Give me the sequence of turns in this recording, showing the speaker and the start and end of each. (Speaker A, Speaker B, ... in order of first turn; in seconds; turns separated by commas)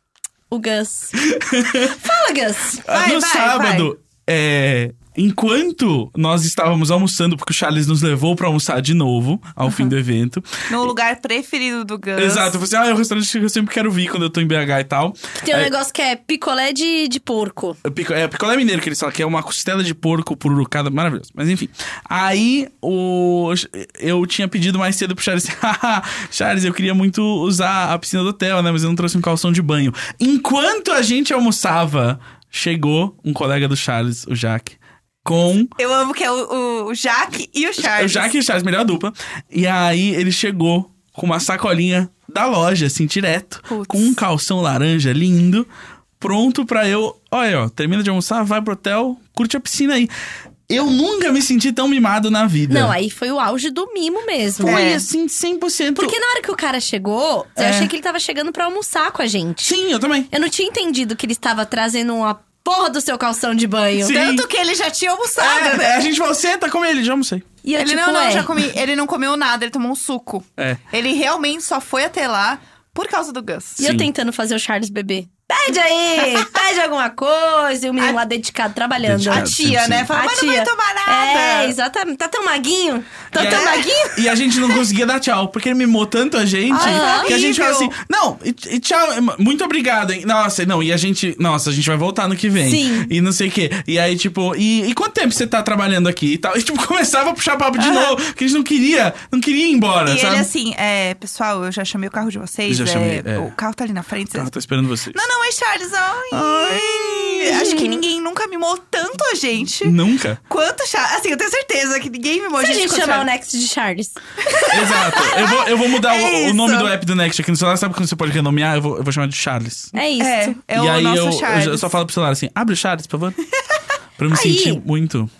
Speaker A: 0.5-1.2, Speaker B: 1.2-2.0, Speaker A: 1.8-2.8, Speaker B: 2.8-10.9, Speaker C: 2.9-3.9, Speaker C: 9.7-9.9, Speaker C: 10.7-12.6, Speaker B: 12.2-15.7, Speaker A: 15.4-17.8, Speaker B: 17.8-35.7, Speaker C: 35.8-38.3, Speaker B: 37.8-45.7, Speaker C: 43.7-44.2, Speaker B: 46.2-50.1, Speaker B: 50.7-52.9, Speaker A: 52.7-54.9, Speaker B: 54.6-56.1, Speaker C: 54.6-55.0, Speaker A: 56.0-59.8, Speaker B: 57.6-57.9, Speaker B: 59.6-60.3, Speaker A: 60.3-64.2, Speaker B: 64.0-64.4, Speaker C: 64.0-66.0, Speaker B: 65.4-67.5, Speaker A: 67.6-68.5, Speaker C: 67.8-73.8, Speaker A: 73.8-79.5, Speaker B: 73.8-74.1, Speaker C: 76.2-76.5, Speaker B: 79.0-80.1, Speaker C: 79.3-81.7, Speaker A: 80.1-84.3, Speaker B: 83.3-100.5, Speaker C: 83.4-84.0, Speaker C: 86.7-87.9, Speaker A: 86.8-87.3, Speaker A: 92.6-93.1, Speaker C: 97.8-98.2, Speaker C: 100.0-104.5, Speaker B: 102.7-103.5, Speaker B: 104.3-105.3, Speaker C: 105.1-113.3, Speaker A: 106.3-108.0, Speaker B: 109.8-110.4, Speaker A: 112.6-115.4, Speaker C: 114.5-116.9, Speaker B: 114.7-119.9, Speaker A: 119.9-120.6, Speaker C: 120.2-122.0, Speaker B: 120.7-123.4, Speaker B: 124.2-125.3, Speaker A: 124.3-124.8